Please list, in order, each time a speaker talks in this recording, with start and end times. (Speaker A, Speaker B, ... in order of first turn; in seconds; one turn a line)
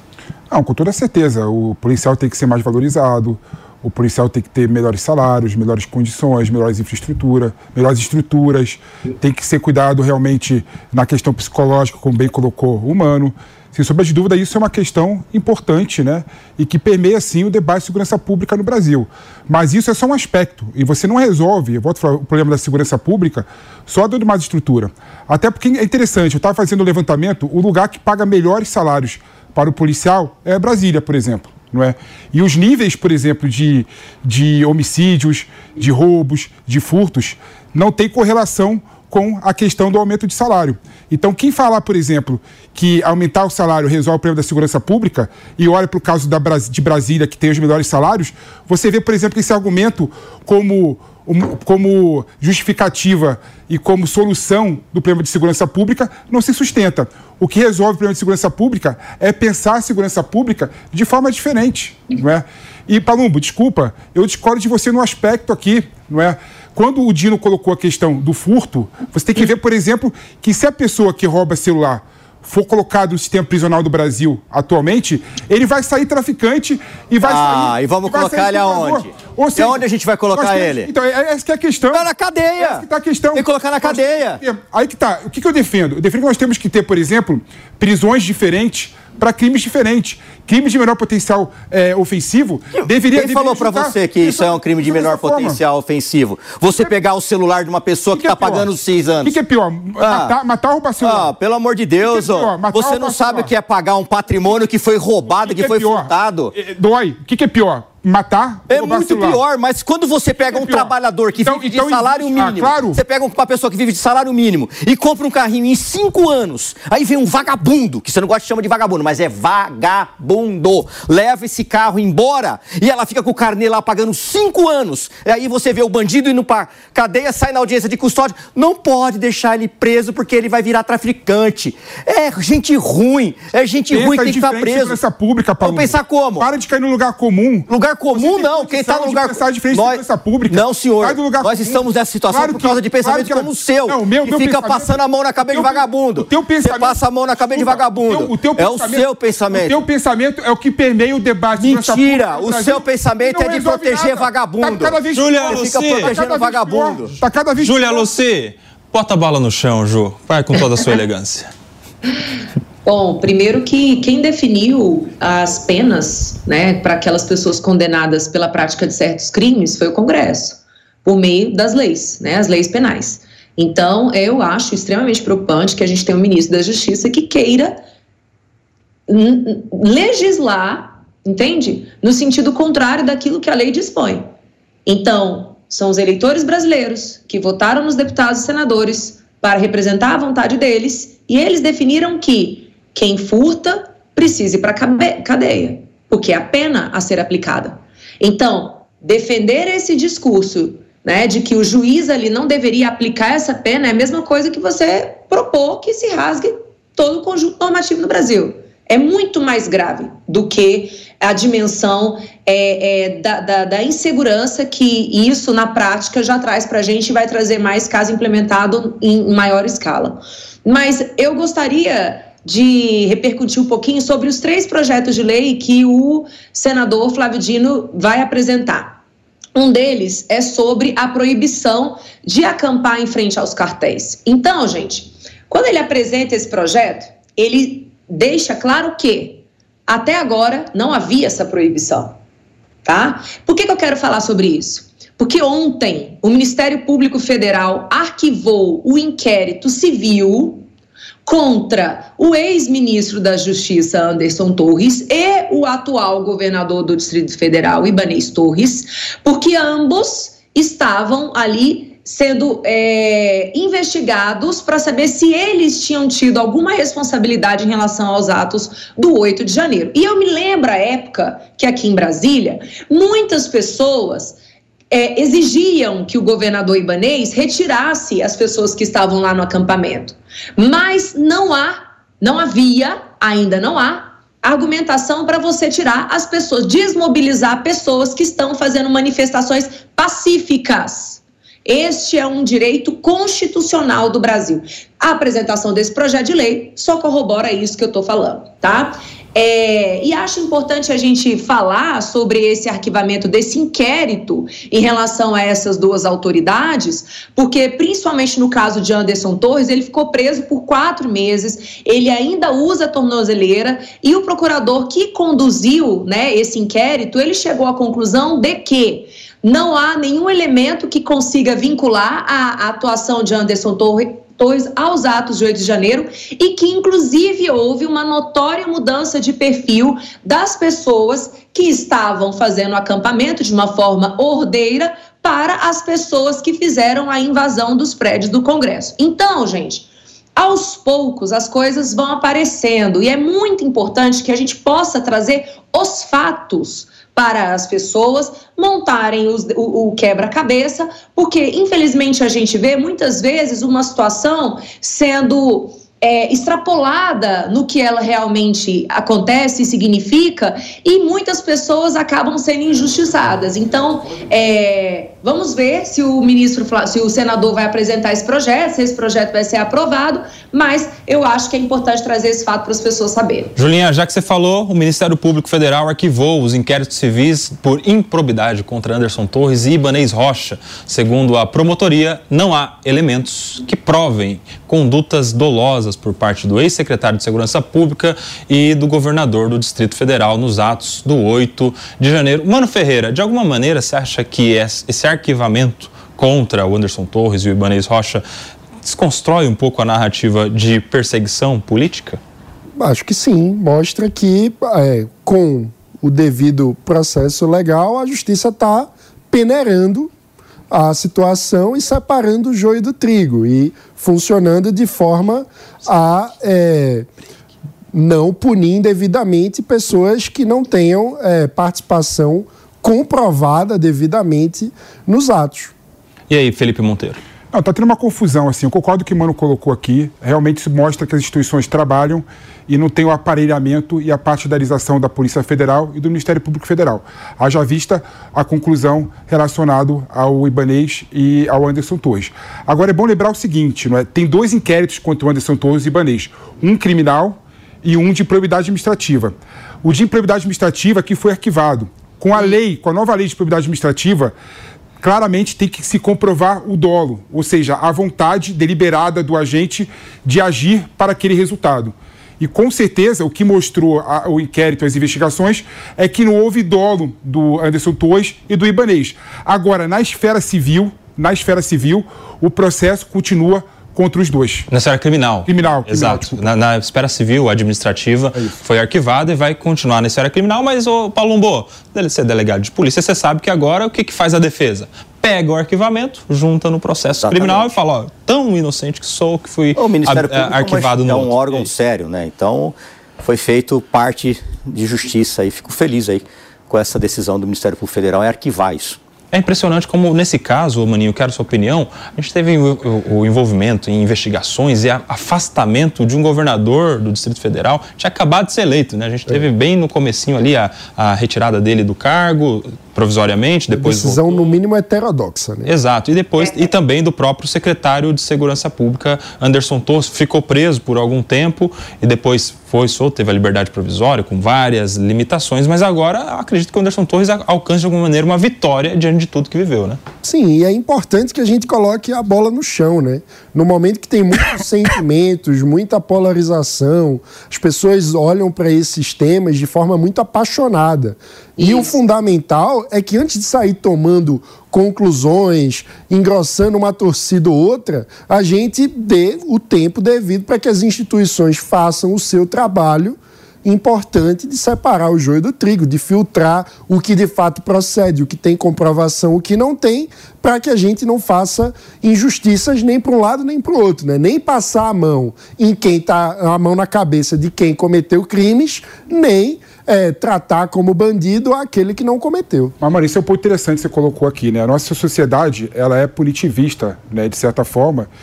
Speaker A: 0.5-95.6
Speaker B: 77.2-80.9
Speaker B: 81.9-84.4
Speaker B: 92.8-99.3
Speaker A: 98.1-101.3
Speaker B: 100.0-100.3
Speaker B: 101.0-106.5
Speaker A: 102.0-103.5
Speaker A: 105.2-109.4
Speaker B: 108.7-135.0
Speaker A: 110.4-113.0
Speaker A: 133.9-145.0
Speaker B: 135.6-136.5
Speaker B: 137.7-149.8
Speaker A: 145.5-158.1
Speaker B: 151.6-157.2
Speaker C: 155.2-156.2
Speaker C: 157.6-161.5
Speaker D: 162.8-177.8
Speaker D: 179.1-184.3
Speaker D: 184.9-228.9
Speaker D: 229.6-242.2
Speaker D: 242.8-250.7
Speaker D: 251.2-274.4
Speaker D: 274.9-373.5
Speaker C: 373.6-398.2
Speaker C: 398.8-402.2
Speaker E: 402.8-410.1
Speaker E: 410.7-417.1
Speaker E: 417.9-425.7
Speaker C: 426.3-427.2
Speaker A: 427.5-454.3
Speaker A: 455.0-474.7
Speaker C: 474.7-491.7
Speaker A: 475.5-476.5
Speaker B: 487.2-487.7
Speaker B: 489.8-499.0
Speaker C: 499.3-514.5
Speaker E: 513.7-515.7
Speaker C: 515.7-530.0
Speaker E: 530.2-572.8
Speaker D: 541.6-541.9
Speaker A: 572.8-578.1